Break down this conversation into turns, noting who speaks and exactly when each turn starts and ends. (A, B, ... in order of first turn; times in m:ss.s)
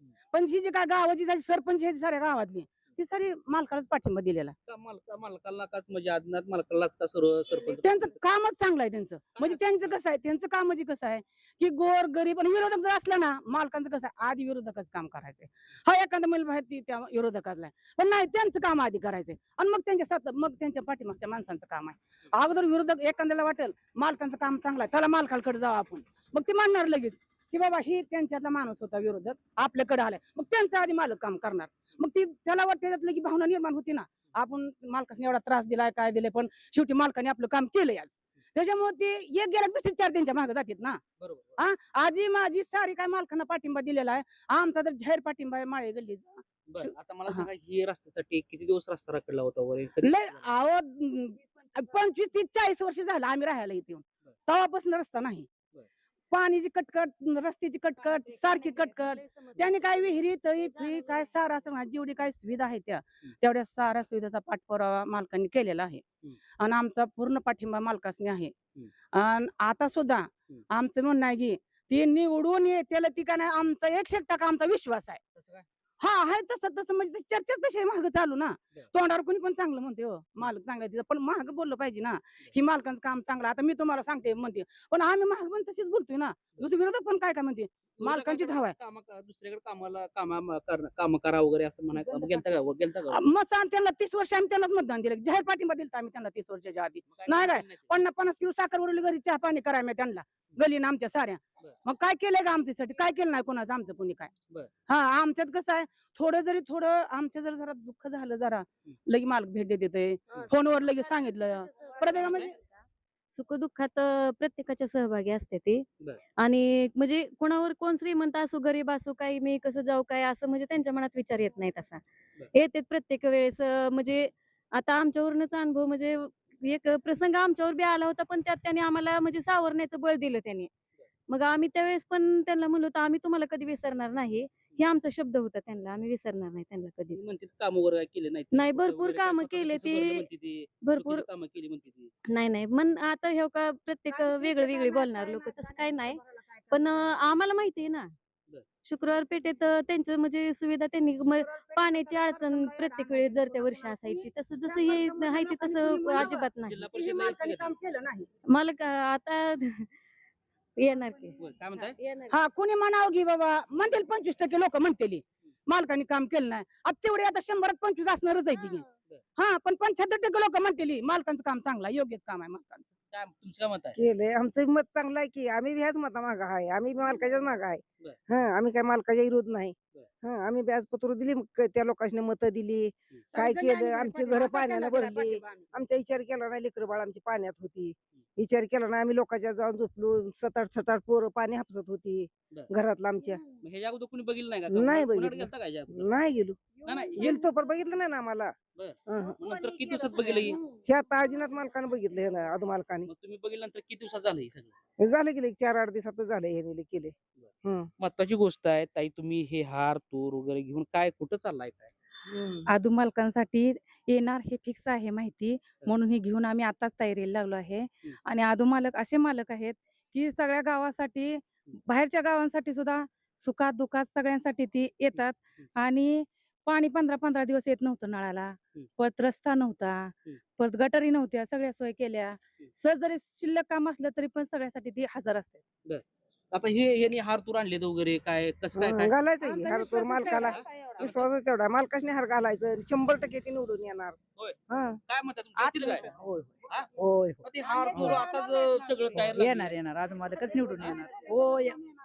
0:00.3-0:04.6 A
0:04.7-0:08.2 B
0:07.7-0:41.0 A
0:09.3-0:10.0 B
0:41.2-0:41.6 B
0:41.6-0:47.5 A
0:46.7-0:50.5 B
0:50.0-0:55.5 A
0:56.3-1:06.0 A
0:58.0-1:00.1 C
1:00.6-1:01.3 C
1:06.6-1:08.6 A
1:09.1-1:15.2 A
1:15.4-1:15.6 B
1:16.0-1:28.8 A
1:28.0-1:33.3 B
1:33.1-1:44.3 A
1:37.1-1:38.0 B
1:44.9-1:52.5 A
1:52.0-1:52.5 B
1:53.3-1:55.9 C
1:56.4-2:10.7 C
2:11.3-2:17.2 C
2:17.2-2:22.1 B
2:18.5-2:20.3 C
2:20.8-2:21.3 C
2:22.3-2:28.1 C
2:24.4-2:25.2 A
2:28.8-2:36.8 C
2:31.5-2:38.3 A
2:36.2-2:37.8 B
2:38.5-2:39.9 C
2:40.8-2:42.4 C
2:41.4-2:42.0 B
2:42.3-2:48.8 A
2:49.4-2:52.9 A
2:53.1-2:54.0 B
2:54.0-3:13.4 D
3:03.3-3:05.7 A
3:13.6-3:16.1 B
3:14.7-3:16.6 D
3:16.8-3:17.5 B
3:17.2-3:18.5 D
3:18.8-3:20.6 B
3:19.1-3:19.4 D
3:20.8-3:23.1 D
3:23.1-3:24.8 B
3:25.0-3:27.9 D
3:27.4-3:31.9 B
3:32.7-3:55.6 E
3:55.9-3:59.2 B
3:58.7-4:04.2 D
3:59.4-4:00.6 E
4:00.3-4:01.2 B
4:04.4-4:06.1 B
4:04.7-4:05.0 D
4:06.1-4:07.4 F
4:06.7-4:06.9 B
4:07.4-4:09.8 B
4:09.4-4:11.8 F
4:10.7-4:11.2 B